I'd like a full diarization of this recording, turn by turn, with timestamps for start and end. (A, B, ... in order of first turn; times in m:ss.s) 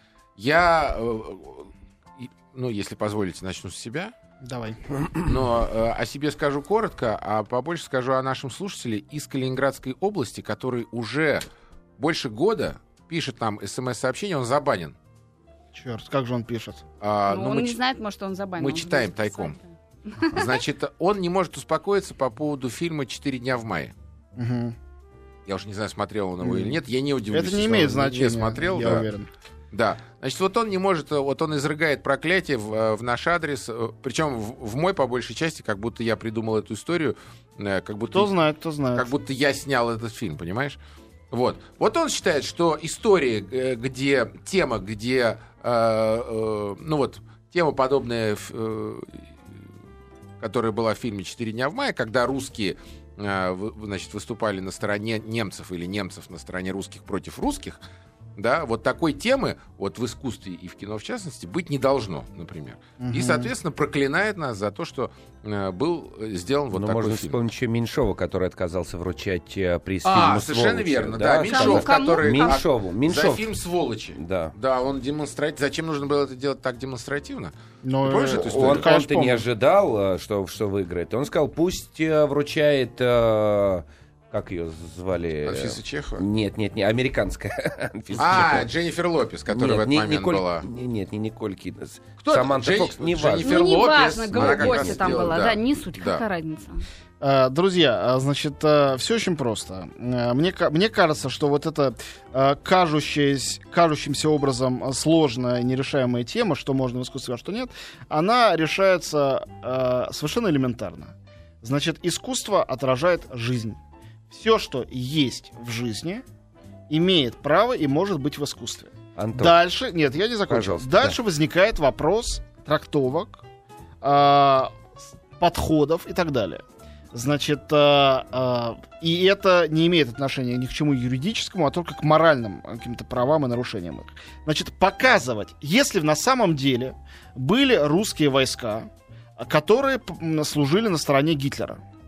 0:00.4-0:01.7 A
0:02.2-0:04.1 A
0:04.4-0:04.8 B
0:05.2-0:11.4 A
0:12.0-0:14.9 A
0:15.7-0:16.8 B
0:17.0-0:17.8 A
0:17.3-0:19.6 C
0:18.6-0:19.6 A
0:20.1-0:20.4 C
0:20.3-0:23.9 A
0:24.4-0:24.8 B
0:25.5-0:29.1 A
0:26.4-0:26.8 B
0:27.3-0:29.3 B
0:29.7-0:38.3 A
0:38.1-0:39.1 B
0:38.9-0:40.8 A
0:41.3-0:49.3 A
0:50.4-0:57.8 A
0:58.4-1:07.4 A
1:03.0-1:03.5 B
1:06.7-1:13.5 D
1:10.0-1:18.9 A
1:11.5-1:12.6 C
1:14.2-1:14.5 D
1:17.8-1:19.4 B
1:18.3-1:28.7 D
1:25.4-1:26.2 A
1:28.2-1:30.6 A
1:29.5-1:35.3 D
1:32.2-1:36.2 A
1:33.4-1:36.8 C
1:37.2-1:53.8 B
1:54.3-1:56.2 B
1:56.9-2:03.4 B
1:59.2-1:59.6 D
2:00.5-2:01.2 D
2:04.0-2:21.8 B